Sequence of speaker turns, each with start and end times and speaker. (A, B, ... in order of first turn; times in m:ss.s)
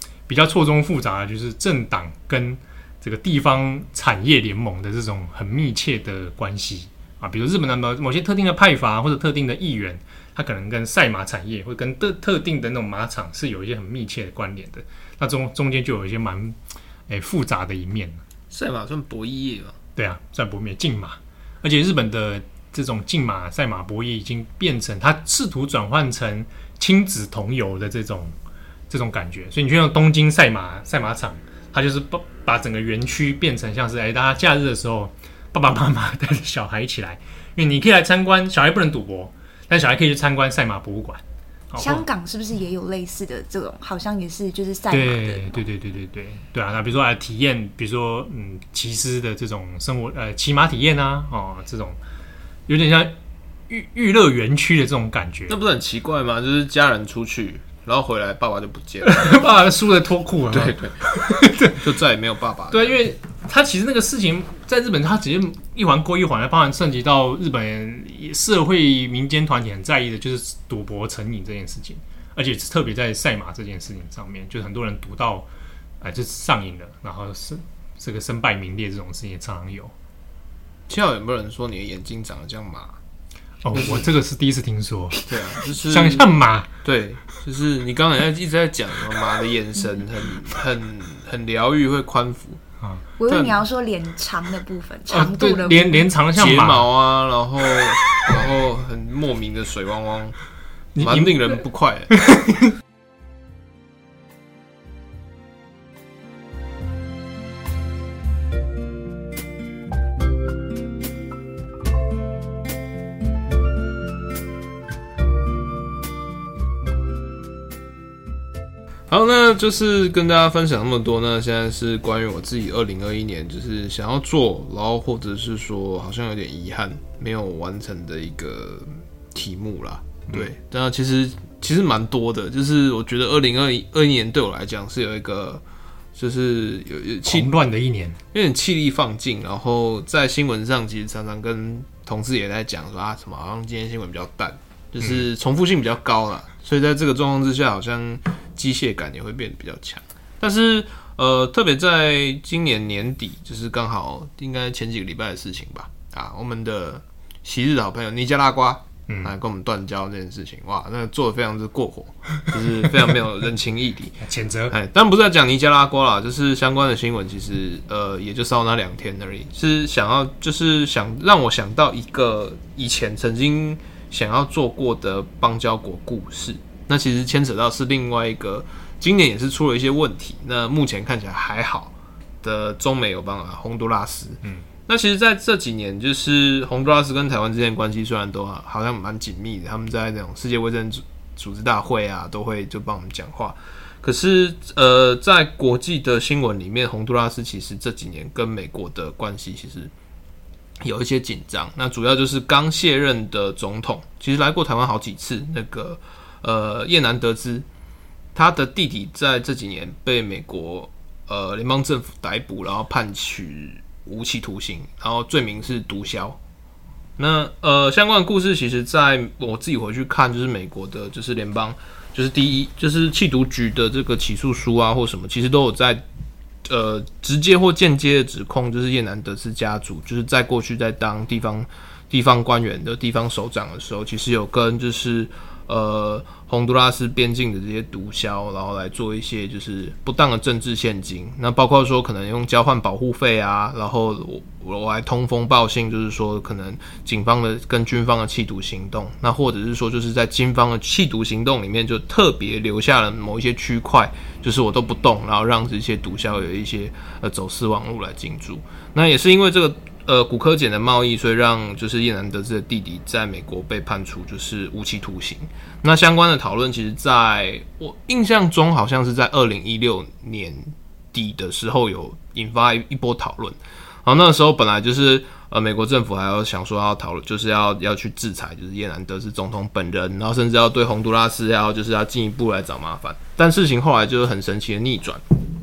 0:00.3-0:16.6 A
0:17.1-0:18.2 A
0:18.5-0:19.8 B
0:20.0-0:28.3 A
0:28.9-0:42.1 A
0:41.8-0:45.6 C
0:44.9-0:52.0 A
0:52.7-0:53.1 A
0:53.7-0:55.5 A
0:55.5-0:59.4 B
0:59.0-1:01.8 A
1:00.5-1:03.0 B
1:02.7-1:15.5 A
1:16.0-1:19.9 A
1:20.9-1:23.0 B
1:23.6-1:26.7 A
1:23.7-1:24.1 B
1:25.2-1:26.3 B
1:26.8-1:32.6 B
1:33.2-1:36.1 C
1:33.3-1:33.6 B
1:35.1-1:36.9 A
1:36.3-1:40.4 B
1:37.8-1:38.3 A
1:40.9-1:41.6 A
1:41.0-1:42.1 B
1:42.1-1:42.7 A
1:59.1-2:15.6 B
2:16.1-2:17.5 B
2:17.2-2:18.2 A
2:18.3-3:19.9 B
2:39.1-2:39.3 A
2:44.2-2:44.7 A
3:20.8-3:27.6 B
3:28.3-3:36.4 B
3:37.2-3:46.0 B
3:46.6-4:45.2 B